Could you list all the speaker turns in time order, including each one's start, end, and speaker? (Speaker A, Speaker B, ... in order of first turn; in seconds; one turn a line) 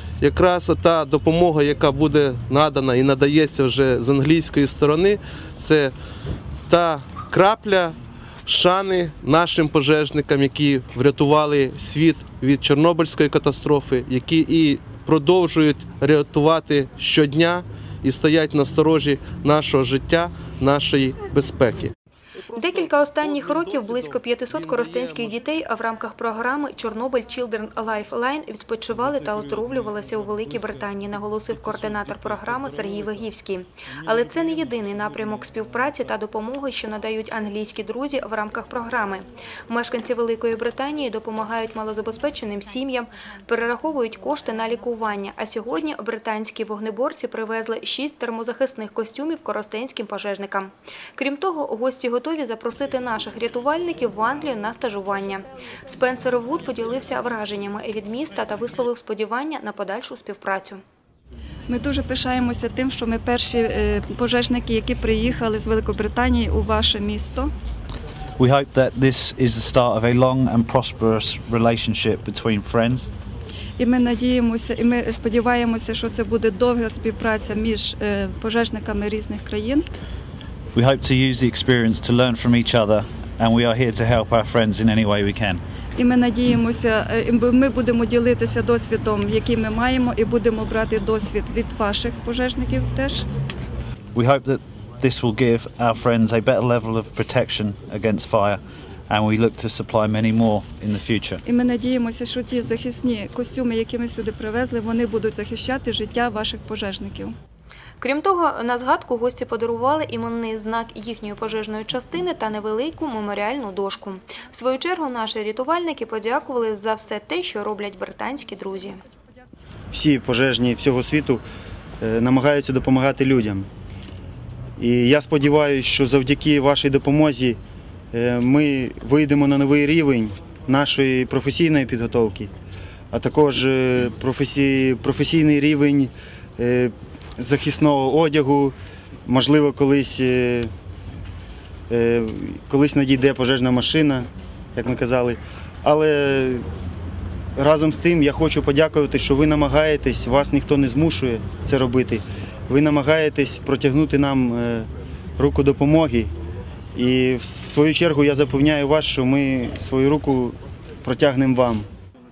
Speaker A: 0.2-5.9
Speaker A: 6.7-21.9
Speaker A: 22.5-25.3
Speaker B: 22.5-60.8
Speaker A: 31.7-33.1
Speaker C: 61.7-67.5
Speaker D: 68.4-73.1
Speaker C: 73.8-79.9
Speaker D: 80.7-85.6
Speaker C: 86.0-93.3
Speaker D: 94.1-101.4
Speaker C: 101.4-107.3
Speaker B: 108.0-119.0
Speaker E: 119.9-121.4
Speaker E: 122.0-123.7
Speaker E: 124.8-127.6
Speaker E: 128.1-132.5
Speaker E: 133.1-138.8
Speaker E: 139.3-140.7
Speaker E: 141.9-146.7
Speaker E: 147.6-156.3
Speaker E: 156.9-161.9